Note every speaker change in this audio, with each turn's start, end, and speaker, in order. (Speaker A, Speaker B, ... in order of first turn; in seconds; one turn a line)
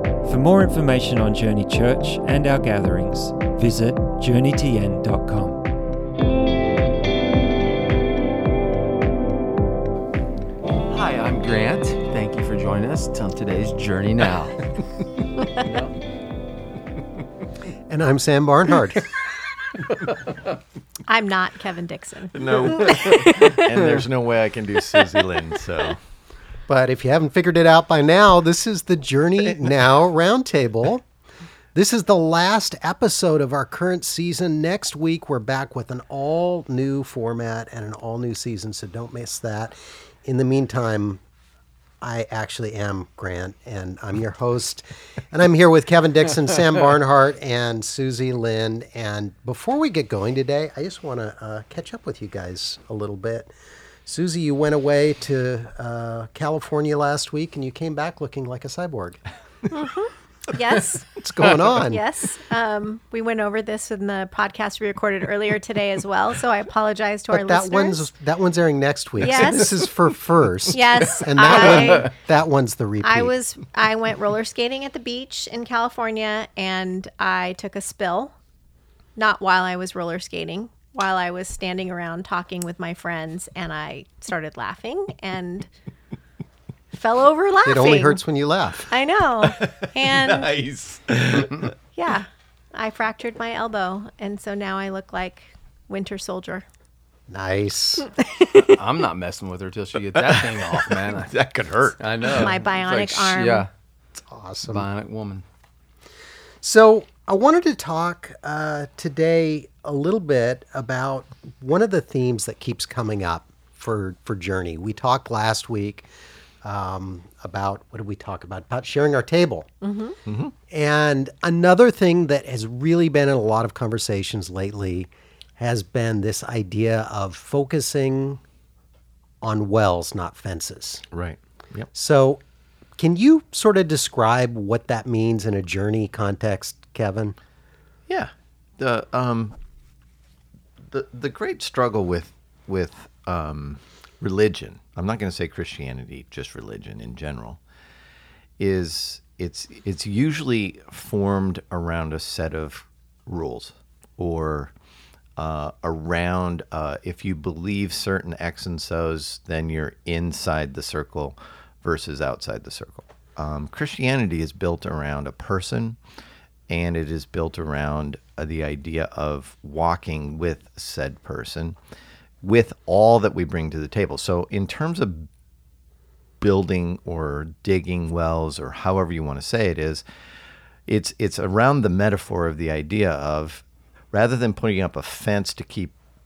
Speaker A: 0.2-5.6
Speaker B: 10.9-14.7
Speaker B: 15.6-15.9
Speaker C: 17.9-19.1
Speaker D: 21.1-23.4
Speaker E: 22.3-26.0
Speaker C: 26.7-31.1
Speaker C: 31.7-41.2
Speaker C: 42.0-53.5
Speaker C: 54.1-59.2
Speaker D: 59.7-61.1
Speaker C: 61.1-62.0
Speaker D: 61.8-68.1
Speaker C: 67.3-73.3
Speaker D: 69.2-69.9
Speaker D: 70.7-72.1
Speaker D: 73.0-78.3
Speaker D: 79.2-85.7
Speaker D: 86.9-88.2
Speaker C: 87.7-88.9
Speaker D: 88.9-90.5
Speaker E: 89.4-91.7
Speaker D: 92.0-96.7
Speaker C: 97.3-98.1
Speaker D: 98.0-98.8
Speaker B: 98.5-101.4
Speaker E: 100.1-102.5
Speaker B: 102.0-103.7
Speaker D: 102.2-103.7
Speaker C: 104.2-104.9
Speaker B: 104.7-105.4
Speaker C: 106.6-116.1
Speaker C: 116.6-119.7
Speaker D: 119.8-120.2
Speaker E: 120.3-120.5
Speaker C: 120.7-128.4
Speaker C: 129.4-131.1
Speaker E: 131.1-131.9
Speaker C: 131.9-132.4
Speaker C: 133.0-137.3
Speaker E: 138.1-139.6
Speaker E: 140.9-147.6
Speaker E: 148.6-154.7
Speaker E: 155.4-166.0
Speaker E: 166.7-171.8
Speaker E: 172.4-175.3
Speaker E: 176.4-180.0
Speaker E: 180.9-186.0